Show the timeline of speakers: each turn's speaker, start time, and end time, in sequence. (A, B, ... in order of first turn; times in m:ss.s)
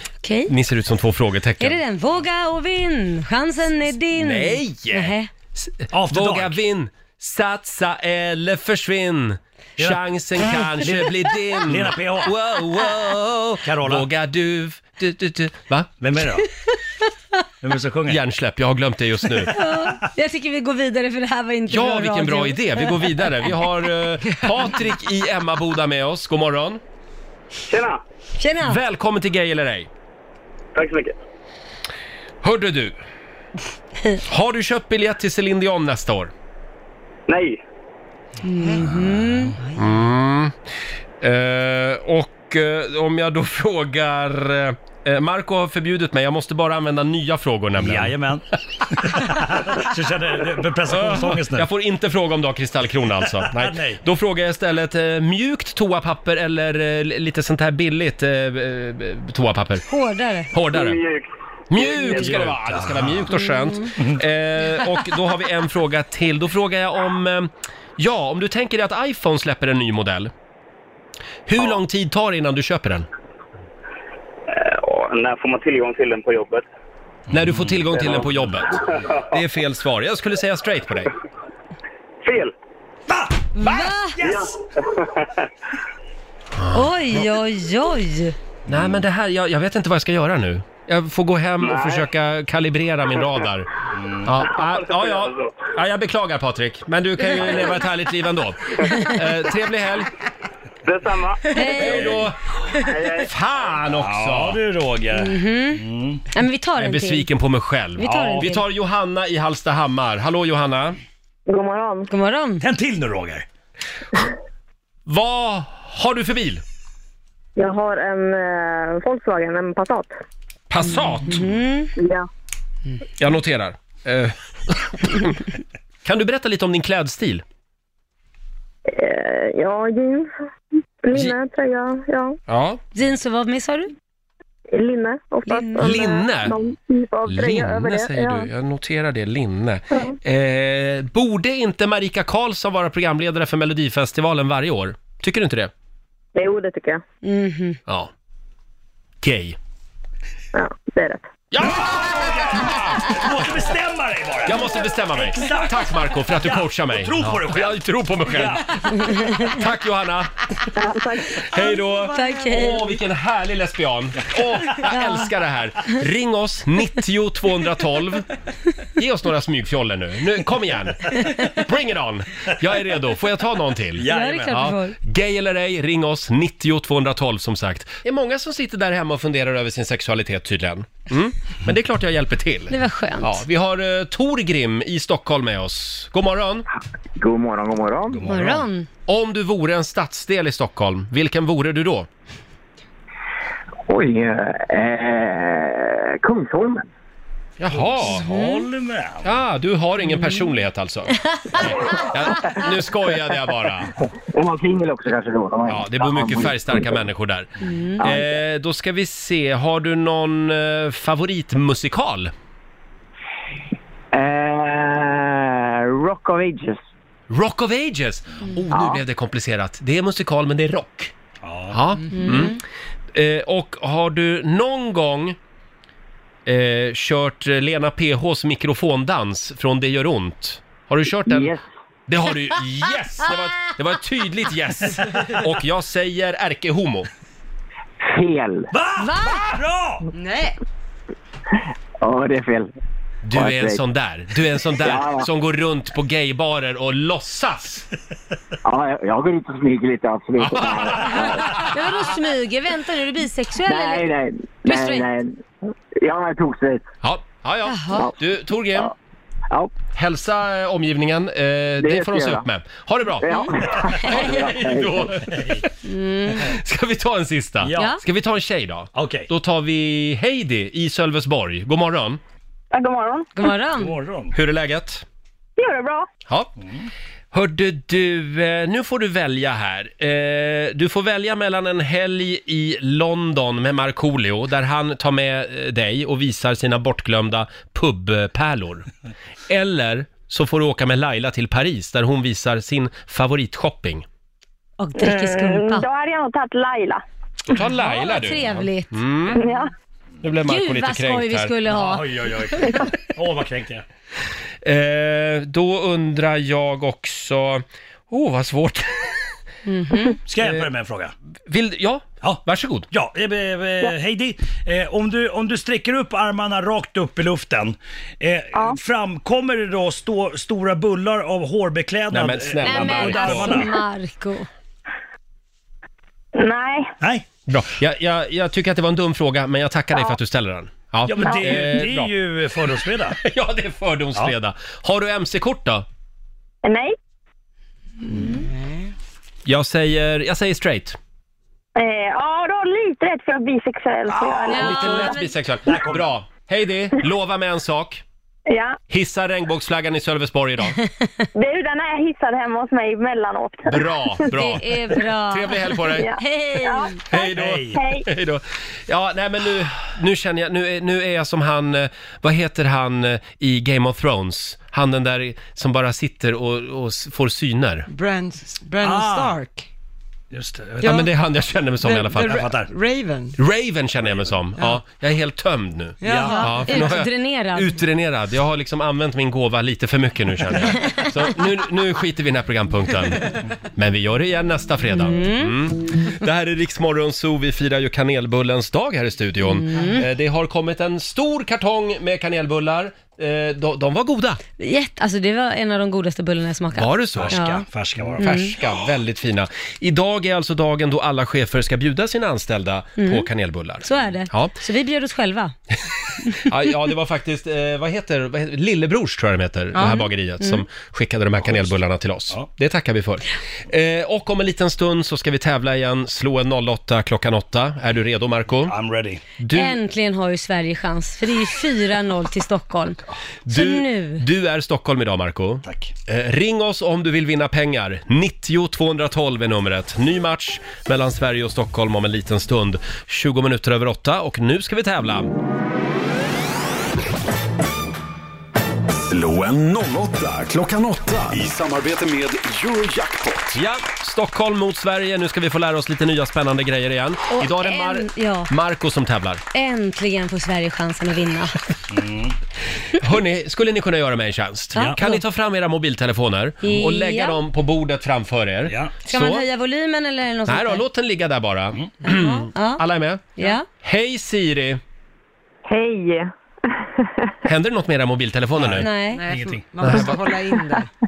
0:00.2-0:00.5 A
0:00.5-0:01.8 B
0:01.6-0:05.3 A
0:04.2-0:15.9 B
0:05.9-0:06.6 C
0:09.8-0:12.3 C
0:13.6-0:14.1 C
0:16.0-0:16.5 C
0:17.6-0:18.2 C
0:18.1-0:19.6 B
0:19.3-0:19.9 C
0:19.5-0:23.5 A
0:21.7-0:26.8 B
0:27.7-0:28.0 D
0:28.4-0:28.8 A
0:28.6-0:29.9 B
0:30.7-0:31.1 D
0:32.4-0:33.0 B
0:34.2-0:36.3 B
0:37.3-0:37.6 D
0:38.4-0:39.6 A
0:38.8-0:39.6 C
0:39.8-0:40.5 B
0:41.2-0:48.2 B
0:47.8-0:51.7 C
0:50.9-0:59.8 B
0:53.3-0:54.0 C
0:59.9-1:00.5 A
1:00.5-1:01.0 B
1:00.6-1:02.4 D
1:01.7-1:10.3 B
1:01.8-1:03.3 C
1:03.4-1:03.8 A
1:11.5-1:13.1 B
1:14.5-1:16.6 D
1:17.3-1:18.4 C
1:17.3-1:21.1 B
1:17.9-1:18.2 D
1:22.2-1:22.5 D
1:23.1-1:24.6 C
1:23.6-1:24.2 A
1:24.2-1:25.4 D
1:26.6-1:26.9 B
1:26.7-1:28.4 A
1:28.7-1:29.0 C
1:28.7-1:33.7 B
1:31.6-1:32.1 D
1:33.9-1:34.4 C
1:34.2-1:40.1 B
1:34.4-1:35.7 D
1:40.8-1:42.2 D
1:41.5-1:42.2 A
1:41.7-1:42.4 B
1:42.8-1:43.3 D
1:43.2-1:44.6 B
1:43.9-1:46.2 C
1:45.2-1:47.3 A
1:46.8-1:51.0 B
1:48.0-1:48.6 A
1:48.0-1:48.5 C
1:52.1-1:52.6 A
1:52.6-1:53.4 C
1:55.1-1:56.6 B
2:00.7-2:01.4 B
2:01.2-2:01.9 A
2:03.2-2:05.4 B
2:06.0-2:07.4 B
2:12.5-2:12.8 B
2:12.9-2:13.9 A
2:15.5-2:16.0 A
2:15.8-2:16.6 B
2:17.2-2:25.7 B
2:27.2-2:27.8 A
2:29.2-2:29.6 B
2:30.6-2:31.2 E
2:31.5-2:33.2 B
2:31.6-2:38.9 C
2:34.4-2:40.3 B
2:39.1-2:39.4 A
2:41.4-2:48.3 B
2:42.1-2:42.9 A
2:44.8-2:45.3 A
2:49.0-3:06.6 B
2:53.9-2:54.7 C
2:54.1-2:55.0 A
3:02.7-3:03.4 A
3:07.2-3:08.2 F
3:08.1-3:08.6 C
3:08.2-3:08.9 A
3:09.1-3:12.1 B
3:13.9-3:16.8 F
3:17.6-3:18.2 B
3:17.7-3:19.3 C
3:18.2-3:18.7 A
3:19.2-3:23.9 B
3:20.1-3:20.4 A
3:22.3-3:22.7 F
3:24.3-3:27.0 F
3:25.7-3:32.3 B
3:27.6-3:28.0 A
3:34.1-3:36.8 F
3:37.3-3:41.1 B
3:38.7-3:39.0 F
3:41.4-3:41.8 C
3:41.7-3:42.6 B
3:42.1-3:42.6 A
3:43.1-3:45.4 B
3:46.4-3:51.5 B
3:51.2-3:51.6 F
3:52.1-3:57.1 B
3:55.0-3:55.3 C
3:58.1-3:58.7 F
3:58.7-4:00.1 C
3:59.0-3:59.5 A
4:00.1-4:00.6 G
4:02.0-4:02.7 F
4:03.2-4:07.8 B
4:03.3-4:03.8 F
4:04.8-4:05.3 F
4:08.6-4:11.5 F
4:10.4-4:11.8 B
4:11.5-4:14.1 A
4:13.6-4:15.4 F
4:14.6-4:15.1 A
4:16.0-4:16.8 F
4:17.0-4:18.9 B
4:17.7-4:18.1 A
4:19.5-4:19.7 F
4:19.9-4:25.6 B
4:21.8-4:22.4 F
4:23.2-4:25.2 F
4:25.3-4:25.6 C
4:25.8-4:26.5 A
4:26.4-4:32.2 B
4:27.6-4:28.0 C
4:28.9-4:29.3 C
4:32.7-4:33.3 H
4:33.4-4:34.0 A
4:33.7-4:34.4 C
4:34.3-4:35.0 B
4:35.6-4:36.1 H
4:36.6-4:36.9 C
4:37.3-4:48.8 B
4:49.5-4:54.0 B
4:54.8-4:55.8 A
4:55.0-4:57.0 H
4:57.5-4:59.4 B
4:57.5-4:58.9 A
4:59.3-4:59.7 H
5:00.2-5:01.5 B
5:00.5-5:02.8 A
5:01.7-5:03.8 C
5:04.6-5:09.2 B
5:09.6-5:10.2 A
5:10.3-5:11.1 C
5:10.4-5:10.7 B
5:11.5-5:12.9 B
5:12.2-5:23.7 C
5:22.1-5:23.6 B
5:22.6-5:24.5 A
5:26.3-5:26.9 H
5:27.5-5:32.1 B
5:31.0-5:33.2 C
5:31.2-5:31.5 H
5:32.8-5:35.8 B
5:36.6-5:36.9 H
5:38.1-5:38.4 A
5:39.4-5:41.0 B
5:41.8-5:45.1 H
5:44.1-5:45.1 C
5:44.5-5:45.2 A
5:44.5-5:48.0 B
5:45.6-5:46.1 C
5:48.5-5:48.8 H
5:48.9-5:50.8 B
5:51.3-5:53.9 H
5:53.7-5:56.1 B
5:54.3-5:57.0 A
5:55.9-5:58.0 H
5:57.1-6:07.9 B
5:57.3-5:57.8 C
6:07.9-6:09.7 G
6:08.8-6:09.4 C
6:10.3-6:11.1 C
6:10.8-6:11.1 G
6:10.8-6:12.4 B
6:11.8-6:13.4 G
6:12.2-6:12.7 C
6:13.4-6:34.4 B
6:14.0-6:14.4 C
6:16.0-6:16.4 G
6:16.0-6:16.7 C
6:16.3-6:17.8 A
6:24.9-6:25.6 A
6:29.4-6:30.0 A
6:34.6-6:37.6 A
6:36.7-6:37.4 B
6:37.2-6:38.3 C
6:38.2-6:38.5 A
6:38.2-6:44.6 B
6:43.0-6:43.3 A
6:43.8-6:45.5 A
6:46.4-6:58.8 B
6:49.7-6:50.6 A
6:51.4-6:51.8 C
6:58.6-6:59.2 C
6:59.4-6:59.8 B
6:59.5-7:04.2 A
7:03.4-7:15.3 B
7:05.6-7:05.9 C
7:19.1-7:23.5 I
7:23.5-7:29.4 B
7:27.3-7:28.5 A
7:29.5-7:31.5 A
7:31.9-7:32.4 C
7:32.9-7:39.4 B
7:34.8-7:35.0 C
7:34.8-7:35.2 A
7:36.6-7:37.4 A
7:38.7-7:38.9 C
7:39.1-7:40.8 A
7:40.5-7:43.2 B
7:42.0-7:42.8 A
7:43.4-7:43.6 A
7:43.8-7:44.8 B
7:45.6-7:47.1 E
7:47.4-7:48.9 B
7:48.5-7:50.0 C
7:48.8-7:49.2 A
7:49.1-7:50.9 G
7:49.8-7:50.2 B